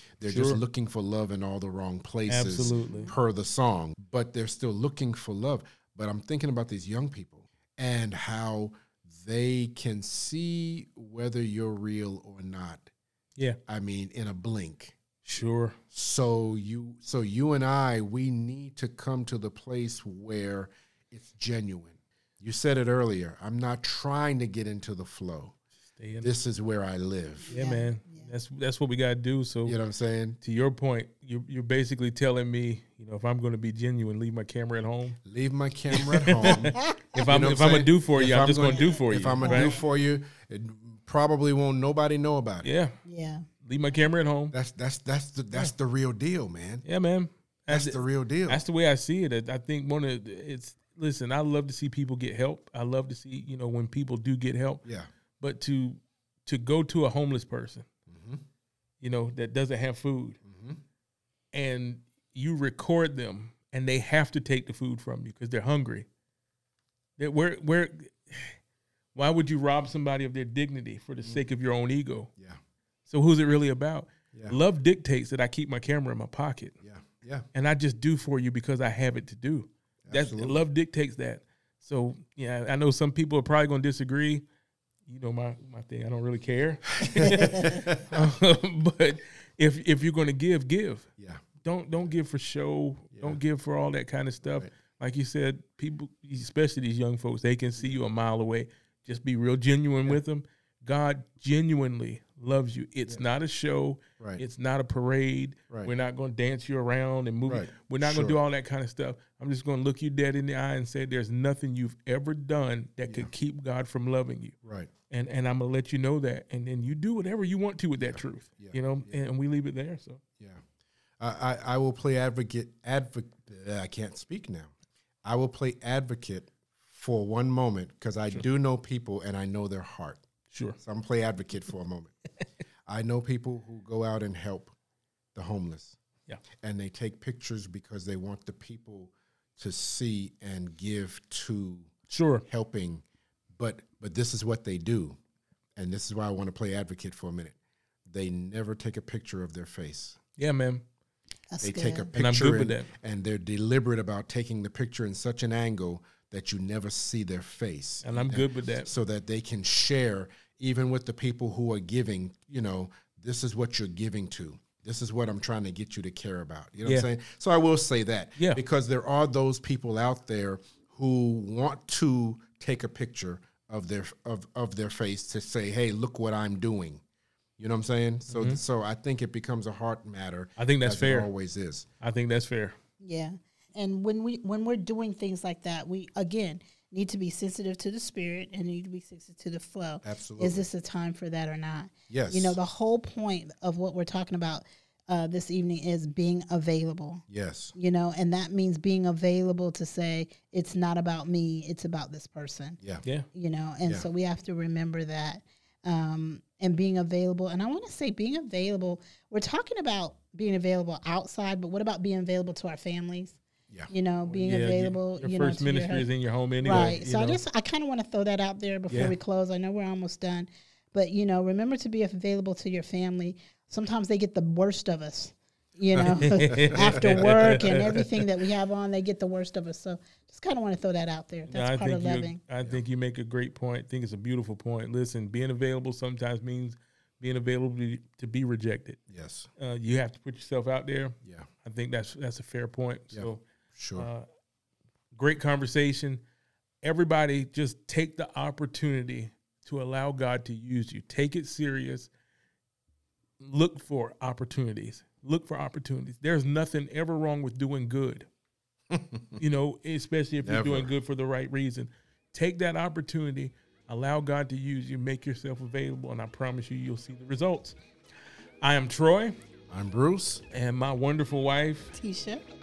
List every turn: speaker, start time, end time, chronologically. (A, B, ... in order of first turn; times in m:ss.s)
0:00.2-0:12.9 A
0:00.3-0:00.6 B
0:02.3-0:03.1 B
0:02.9-0:03.1 C
0:13.7-0:15.0 A
0:15.2-0:15.8 B
0:15.9-0:25.6 A
0:26.0-0:26.3 B
0:26.2-0:27.7 A
0:27.5-0:28.3 C
0:27.5-0:29.8 B
0:29.6-0:30.4 A
0:30.4-0:35.2 B
0:35.2-0:42.7 A
0:35.9-0:39.8 B
0:36.5-0:37.0 C
0:38.7-0:39.8 C
0:42.6-0:43.0 B
0:43.0-0:43.5 C
0:43.6-0:44.5 B
0:44.5-0:46.8 A
0:46.8-0:54.8 B
0:47.7-0:48.6 A
0:54.8-0:55.1 A
0:55.4-0:57.9 B
0:58.1-0:58.4 A
0:59.0-1:00.4 B
1:00.4-1:00.8 A
1:01.5-1:06.0 B
1:07.2-1:08.6 B
1:09.1-1:12.3 B
1:13.1-1:16.8 B
1:14.3-1:14.6 A
1:16.8-1:17.5 A
1:17.5-1:24.4 B
1:20.0-1:20.6 A
1:25.1-1:31.1 B
1:27.0-1:28.1 A
1:27.4-1:27.6 C
1:31.2-1:31.4 A
1:31.6-1:54.5 B
1:33.1-1:33.4 A
1:47.5-1:48.4 A
1:54.6-1:54.9 A
1:55.1-2:00.2 B
1:58.0-1:59.2 A
2:01.2-2:04.7 A
2:05.2-2:10.2 A
2:10.5-2:10.8 B
2:10.8-2:12.1 A
2:12.9-2:14.7 A
2:15.3-2:16.0 A
2:16.6-2:21.9 A
2:22.1-2:22.4 B
2:22.5-2:23.0 A
2:23.6-2:25.2 A
2:25.8-2:27.6 A
2:28.1-2:30.2 A
2:30.4-2:30.8 B
2:31.5-2:32.1 C
2:31.6-2:57.0 A
2:32.1-2:32.9 B
2:38.0-2:38.9 B
2:57.6-3:01.9 A
2:58.3-2:58.6 B
3:00.6-3:01.3 B
3:02.0-3:02.8 B
3:03.0-3:17.2 C
3:10.0-3:10.7 A
3:12.1-3:12.6 A
3:17.3-3:17.7 A
3:17.7-3:22.8 C
3:23.3-3:33.4 C
3:33.9-3:36.1 C
3:34.3-3:37.4 B
3:36.6-3:52.4 C
3:36.7-3:37.0 A
3:46.0-3:47.3 A
3:46.2-3:48.2 B
3:51.5-3:59.0 B
3:59.1-3:59.5 A
3:59.6-4:03.4 B
4:03.1-4:04.1 A
4:04.0-4:04.2 B
4:05.1-4:06.2 B
4:06.8-4:12.1 B
4:13.4-4:18.3 B
4:18.9-4:19.4 A
4:19.4-4:27.7 B
4:20.4-4:20.9 A
4:28.6-4:29.3 B
4:29.7-4:30.4 A
4:30.5-4:32.0 B
4:32.0-4:32.5 C